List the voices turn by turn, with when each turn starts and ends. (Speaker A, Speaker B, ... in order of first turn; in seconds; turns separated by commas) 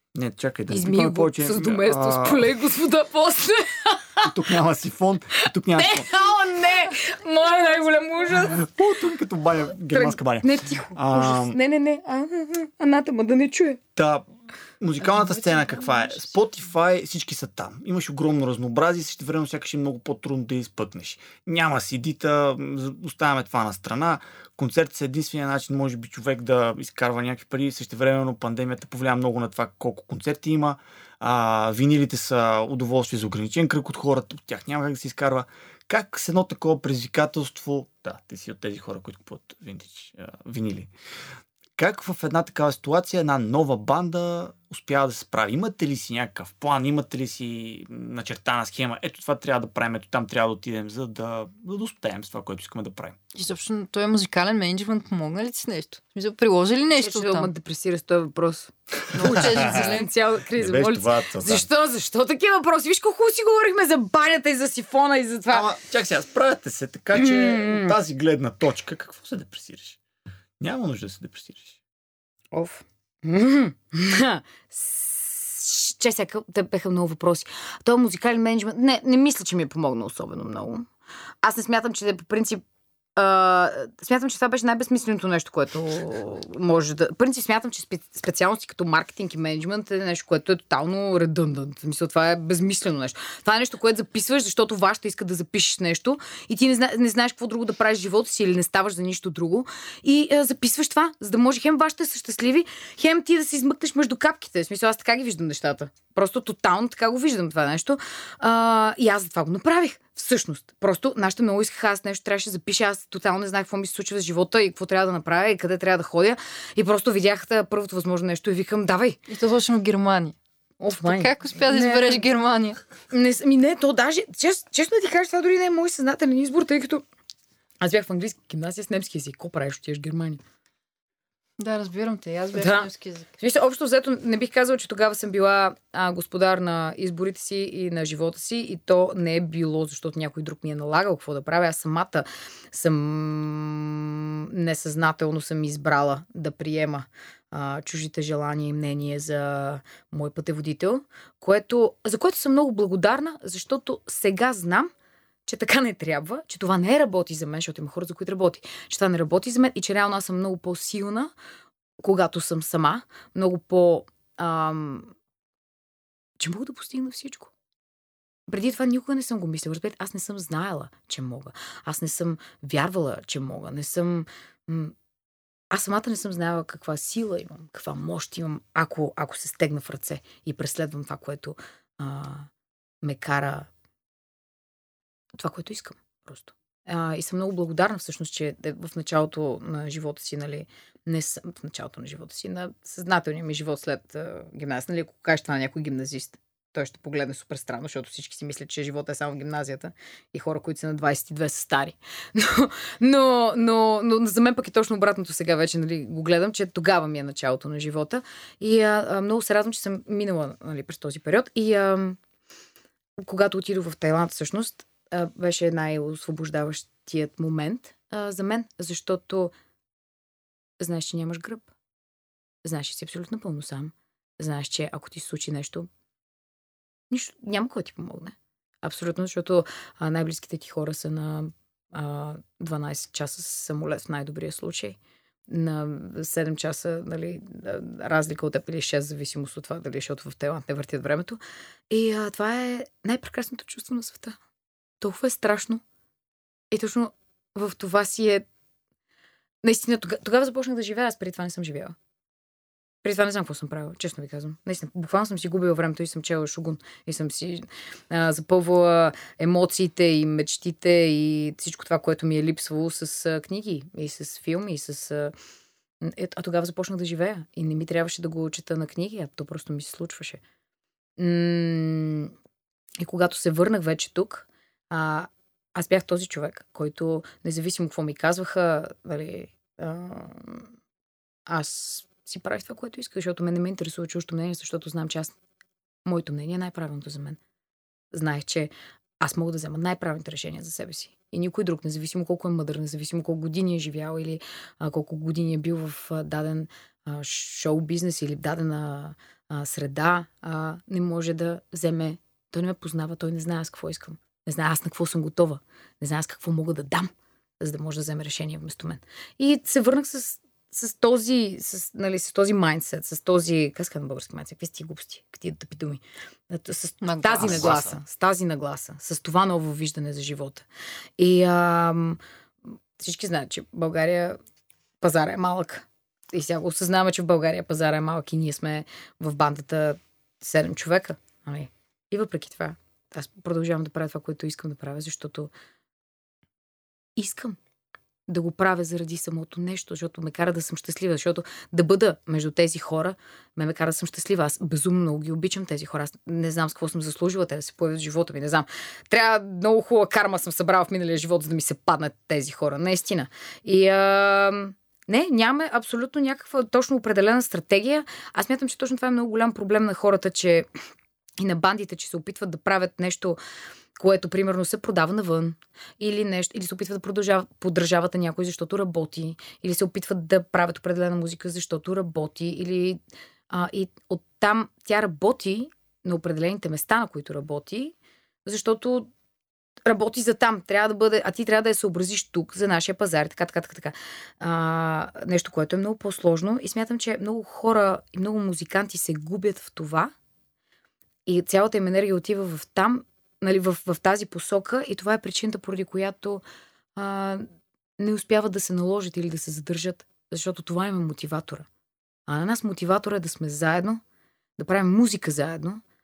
Speaker A: 0.1-2.5, Speaker B: 0.7-4.3, Speaker A: 4.2-6.1, Speaker B: 5.8-8.7, Speaker A: 8.4-11.6, Speaker B: 9.9-13.8, Speaker A: 14.0-14.2, Speaker A: 14.8-40.9, Speaker C: 15.0-16.3, Speaker A: 41.8-53.2, Speaker C: 53.3-57.5, Speaker B: 57.0-65.7, Speaker C: 59.1-60.1, Speaker A: 59.2-61.7, Speaker A: 65.5-70.0, Speaker B: 67.2-68.0, Speaker A: 70.6-71.8, Speaker B: 72.5-80.9, Speaker B: 81.4-82.6, Speaker B: 83.2-119.2, Speaker C: 119.3-120.4, Speaker B: 120.8-122.2, Speaker C: 121.0-122.8, Speaker B: 123.1-127.0, Speaker B: 127.8-130.4, Speaker C: 131.6-133.3, Speaker B: 132.6-154.9, Speaker B: 155.5-161.3, Speaker B: 162.0-165.1, Speaker B: 166.4-167.5, Speaker B: 168.5-174.9, Speaker B: 175.7-182.5, Speaker B: 183.0-183.7, Speaker B: 185.3-212.2, Speaker B: 213.2-219.5, Speaker B: 220.8-221.7, Speaker B: 222.6-225.9, Speaker B: 227.1-244.4, Speaker B: 245.0-245.8, Speaker B: 246.7-248.4, Speaker B: 249.6-251.9, Speaker B: 253.0-265.3, Speaker B: 266.0-270.4, Speaker B: 271.2-272.3, Speaker B: 273.0-280.7, Speaker B: 281.5-285.3, Speaker B: 286.1-287.4, Speaker B: 288.1-320.6, Speaker C: 317.0-317.7, Speaker A: 317.4-318.0, Speaker B: 321.2-322.2, Speaker B: 323.0-324.4, Speaker B: 325.0-335.5, Speaker B: 337.2-337.6, Speaker B: 338.3-360.7, Speaker B: 361.4-363.4, Speaker B: 364.0-379.1, Speaker B: 379.9-390.1, Speaker B: 391.3-396.4, Speaker B: 397.0-397.5, Speaker B: 398.0-401.7, Speaker B: 402.3-404.0, Speaker B: 404.6-405.8